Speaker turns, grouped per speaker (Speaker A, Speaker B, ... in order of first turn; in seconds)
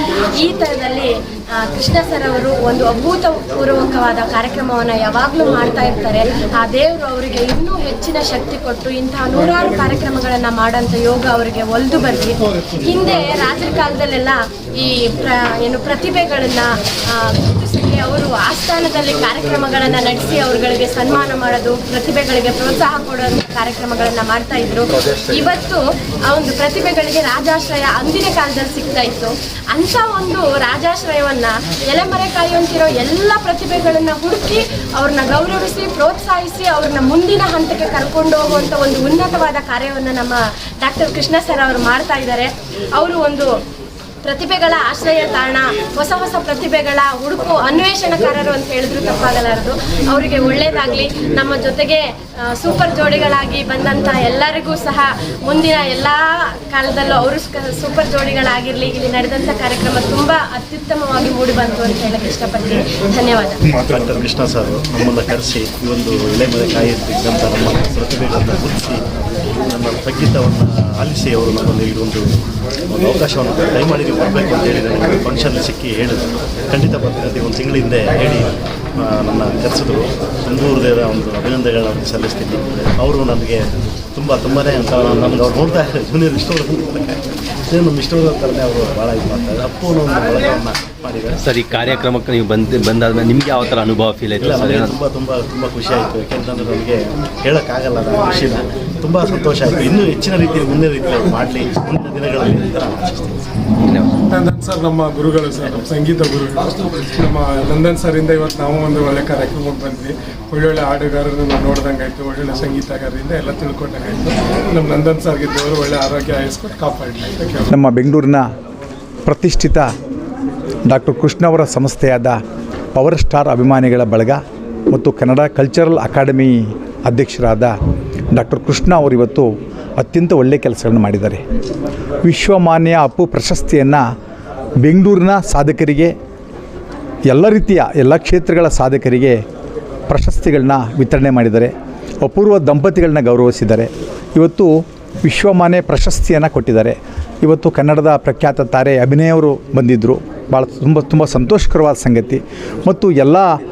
Speaker A: 0.4-43.5, 44.2-52.0, 52.5-63.6
Speaker B: 63.8-69.0, 69.7-72.3, 72.9-91.3, 94.4-103.5
Speaker C: 91.4-95.0, 103.8-104.1
Speaker D: 104.3-117.6
Speaker E: 117.7-118.4, 119.2-119.9, 120.8-122.4, 122.9-127.8, 128.3-131.4, 132.2-134.0, 134.8-136.1, 137.3-139.4, 140.1-153.6